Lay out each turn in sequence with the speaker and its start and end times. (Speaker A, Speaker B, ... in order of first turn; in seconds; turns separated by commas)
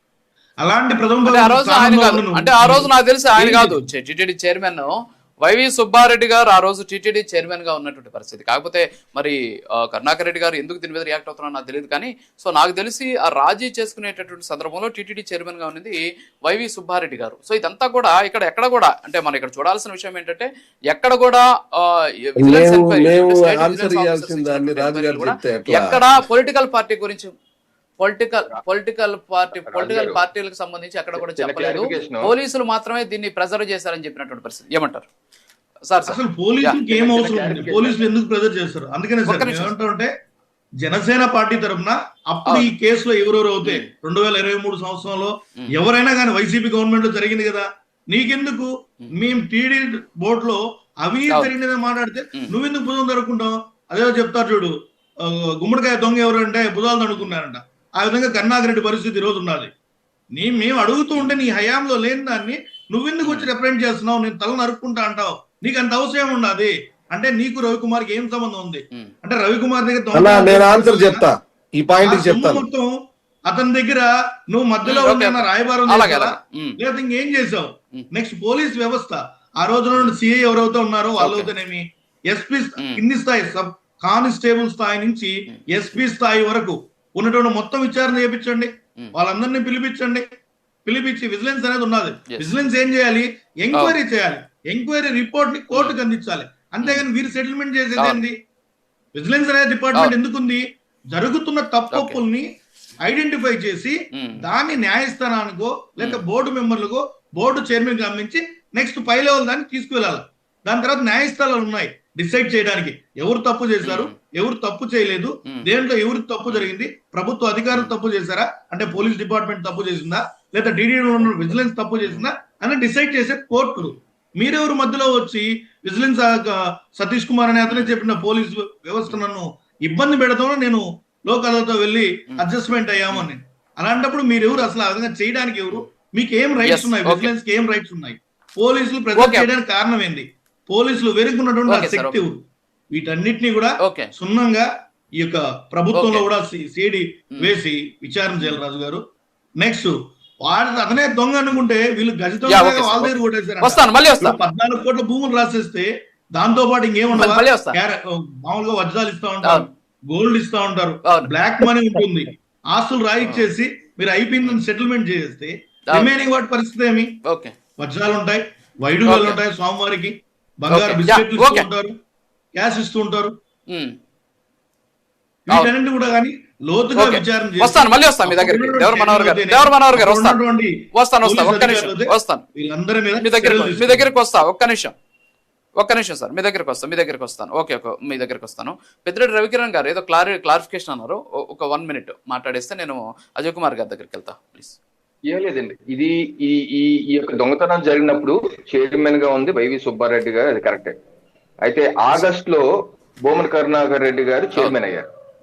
Speaker A: 0.6-3.8, Speaker B: 1.2-27.4, Speaker C: 22.4-26.0, Speaker B: 28.0-35.1, Speaker D: 29.7-30.2, Speaker D: 31.1-32.3, Speaker B: 35.9-36.8, Speaker A: 36.1-40.1, Speaker D: 36.9-38.0, Speaker B: 39.3-39.7, Speaker A: 40.8-59.7, Speaker B: 42.5-42.7, Speaker B: 43.6-43.9, Speaker A: 60.3-71.3, Speaker B: 63.2-63.5, Speaker C: 70.1-72.7, Speaker A: 72.0-90.2, Speaker B: 74.8-76.8, Speaker B: 81.2-81.5, Speaker A: 90.9-98.3, Speaker A: 99.2-102.5, Speaker B: 101.9-102.2, Speaker A: 103.0-142.4, Speaker B: 104.1-104.4, Speaker B: 113.8-114.1, Speaker B: 121.2-122.3, Speaker B: 127.7-128.0, Speaker B: 136.6-137.3, Speaker B: 139.2-139.5, Speaker B: 141.7-142.2, Speaker A: 142.9-144.7, Speaker B: 143.8-144.1, Speaker A: 145.2-149.0, Speaker B: 145.9-146.2, Speaker A: 149.6-167.2, Speaker B: 152.5-154.4, Speaker B: 157.2-157.8, Speaker B: 161.1-162.0, Speaker B: 163.2-163.5, Speaker B: 167.3-167.5, Speaker A: 167.8-171.9, Speaker B: 169.1-169.4, Speaker B: 170.7-171.7, Speaker A: 172.6-173.3, Speaker A: 175.5-184.1, Speaker B: 176.9-180.4, Speaker B: 180.9-182.4, Speaker B: 183.2-184.9, Speaker B: 185.8-194.8, Speaker D: 195.3-201.0, Speaker D: 201.6-202.6, Speaker D: 203.2-205.1